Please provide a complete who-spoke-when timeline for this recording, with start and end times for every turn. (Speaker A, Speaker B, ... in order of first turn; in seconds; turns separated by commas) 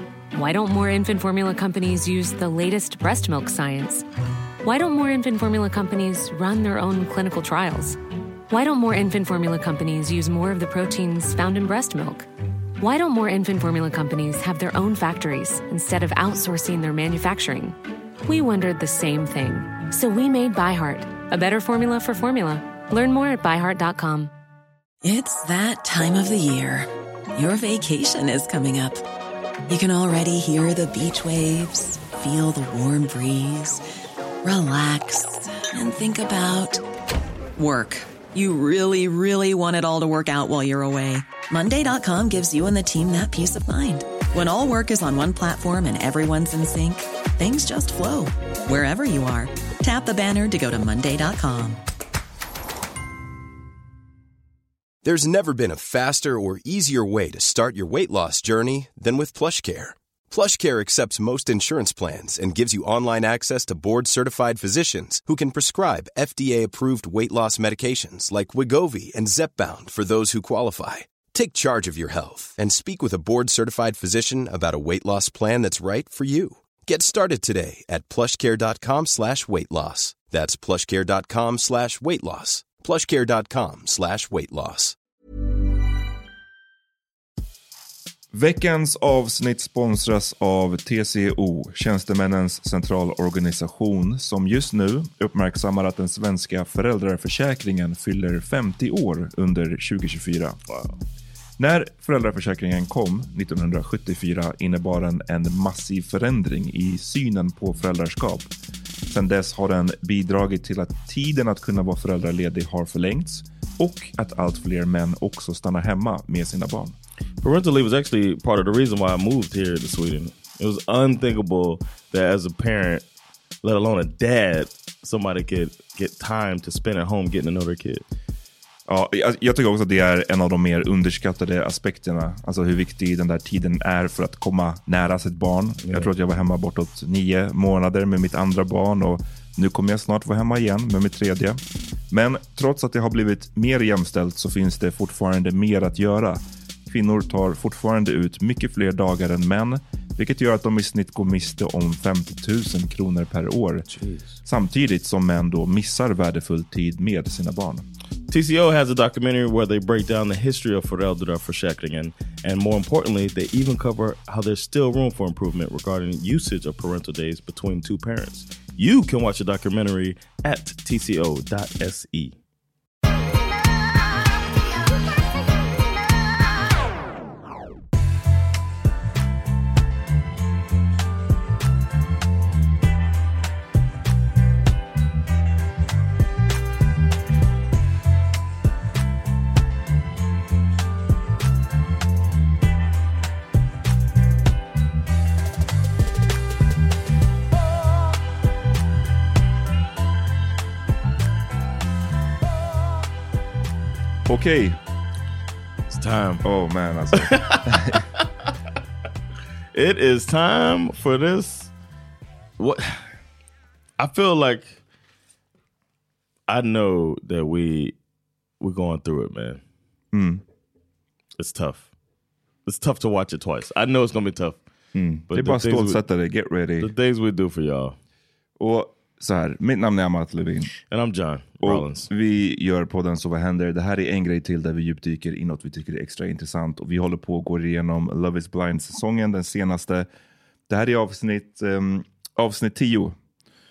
Speaker A: 0.3-4.0, Speaker A: 4.6-8.0, Speaker A: 8.5-12.3, Speaker A: 12.8-24.3, Speaker B: 25.0-29.0, Speaker B: 29.7-33.8, Speaker B: 34.4-36.8, Speaker B: 37.5-51.8, Speaker C: 55.0-85.0, Speaker D: 88.3-100.6, Speaker E: 100.7-101.0, Speaker D: 101.6-108.5, Speaker D: 109.1-117.0, Speaker E: 117.4-123.0, Speaker E: 123.6-128.0, Speaker D: 128.9-153.9, Speaker E: 135.8-136.1, Speaker E: 153.9-154.4, Speaker D: 154.4-157.9, Speaker E: 158.3-172.4, Speaker D: 204.2-204.8, Speaker E: 205.9-206.4, Speaker D: 206.4-208.0, Speaker E: 207.1-208.3, Speaker E: 209.7-211.7, Speaker E: 212.6-213.0, Speaker E: 214.0-214.8, Speaker E: 216.5-217.9, Speaker E: 218.6-219.6, Speaker D: 220.1-220.4, Speaker E: 221.4-221.9, Speaker E: 222.7-224.6, Speaker D: 224.9-226.9, Speaker E: 225.3-226.0, Speaker E: 226.8-227.9, Speaker D: 228.6-230.7, Speaker E: 230.9-232.1, Speaker D: 231.6-240.1, Speaker D: 240.7-243.2